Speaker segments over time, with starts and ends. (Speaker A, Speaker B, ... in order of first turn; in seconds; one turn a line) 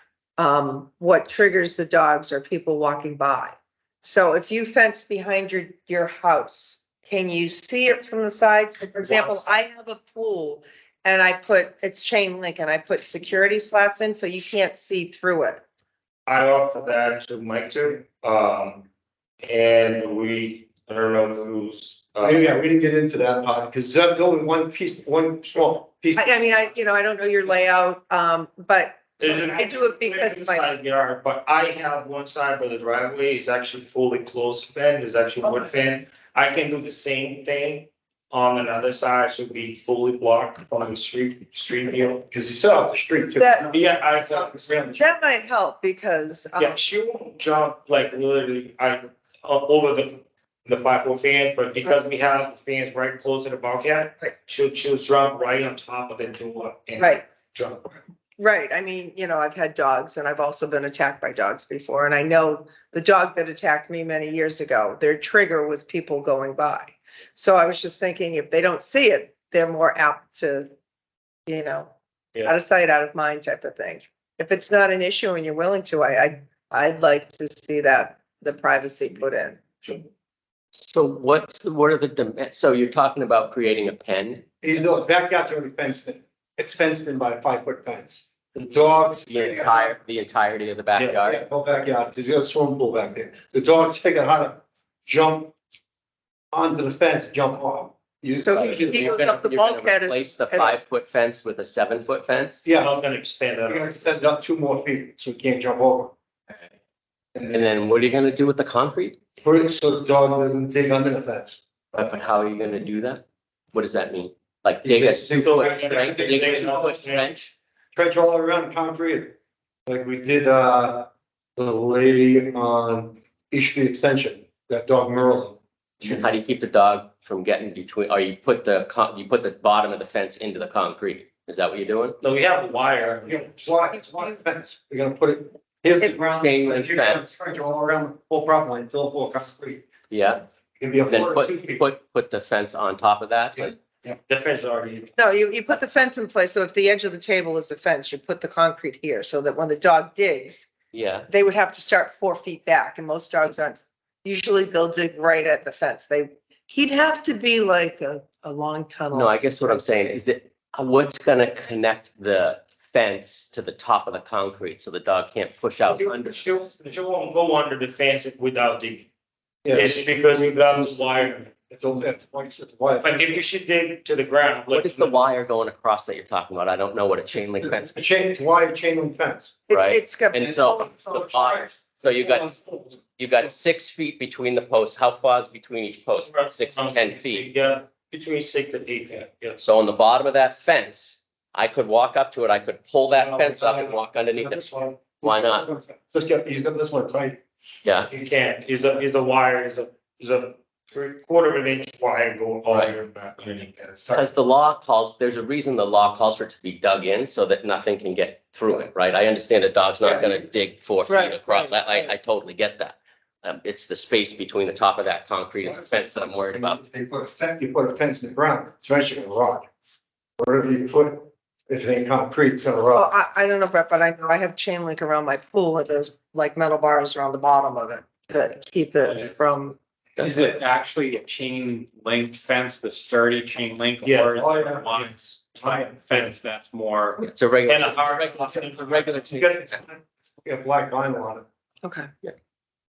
Speaker A: 0.4-15.6
Speaker B: 9.0-9.5
Speaker B: 16.3-18.9
Speaker B: 19.4-22.5
Speaker C: 22.2-26.4
Speaker A: 26.2-30.7
Speaker B: 29.2-42.2
Speaker C: 42.3-45.0
Speaker A: 43.4-43.7
Speaker B: 43.7-45.0
Speaker A: 44.9-46.8
Speaker B: 46.6-57.9
Speaker A: 57.0-57.2
Speaker A: 58.4-70.7
Speaker A: 71.5-71.9
Speaker A: 72.5-79.6
Speaker D: 80.8-84.5
Speaker C: 84.6-90.0
Speaker D: 89.3-91.4
Speaker C: 91.2-95.5
Speaker C: 96.5-99.2
Speaker A: 98.4-100.8
Speaker D: 98.5-102.7
Speaker C: 102.7-103.0
Speaker B: 102.8-104.2
Speaker C: 103.7-106.1
Speaker C: 107.3-107.7
Speaker D: 107.5-109.2
Speaker C: 109.4-111.6
Speaker D: 111.9-117.5
Speaker C: 114.8-116.9
Speaker B: 115.6-117.3
Speaker C: 118.0-126.4
Speaker D: 126.0-132.2
Speaker B: 132.2-133.4
Speaker C: 133.3-139.8
Speaker D: 136.2-137.3
Speaker D: 140.1-140.4
Speaker C: 140.8-141.8
Speaker D: 141.1-143.8
Speaker C: 143.6-144.2
Speaker B: 144.3-145.1
Speaker A: 145.2-150.7
Speaker D: 150.9-151.3
Speaker A: 151.3-159.9
Speaker D: 159.1-166.5
Speaker B: 166.2-169.1
Speaker C: 169.7-170.1
Speaker B: 169.7-171.5
Speaker C: 171.6-173.4
Speaker B: 173.0-175.1
Speaker D: 174.7-178.0
Speaker C: 177.6-179.6
Speaker A: 179.7-180.8
Speaker D: 179.7-182.6
Speaker C: 180.4-182.9
Speaker D: 183.2-187.5
Speaker B: 186.2-189.6
Speaker D: 189.6-195.7
Speaker B: 193.3-193.8
Speaker C: 193.4-197.4
Speaker D: 197.8-198.1
Speaker B: 198.1-203.8
Speaker C: 203.8-204.3
Speaker D: 204.1-216.8
Speaker C: 210.0-210.5
Speaker A: 211.1-212.1
Speaker C: 215.6-219.7
Speaker C: 220.4-223.1
Speaker A: 223.0-229.8
Speaker D: 230.2-230.4
Speaker E: 230.2-237.2
Speaker B: 234.0-235.4
Speaker C: 234.4-234.9
Speaker C: 235.6-236.0
Speaker B: 236.0-236.4
Speaker D: 237.2-239.8
Speaker B: 237.7-239.2
Speaker C: 239.2-241.4
Speaker A: 241.8-242.1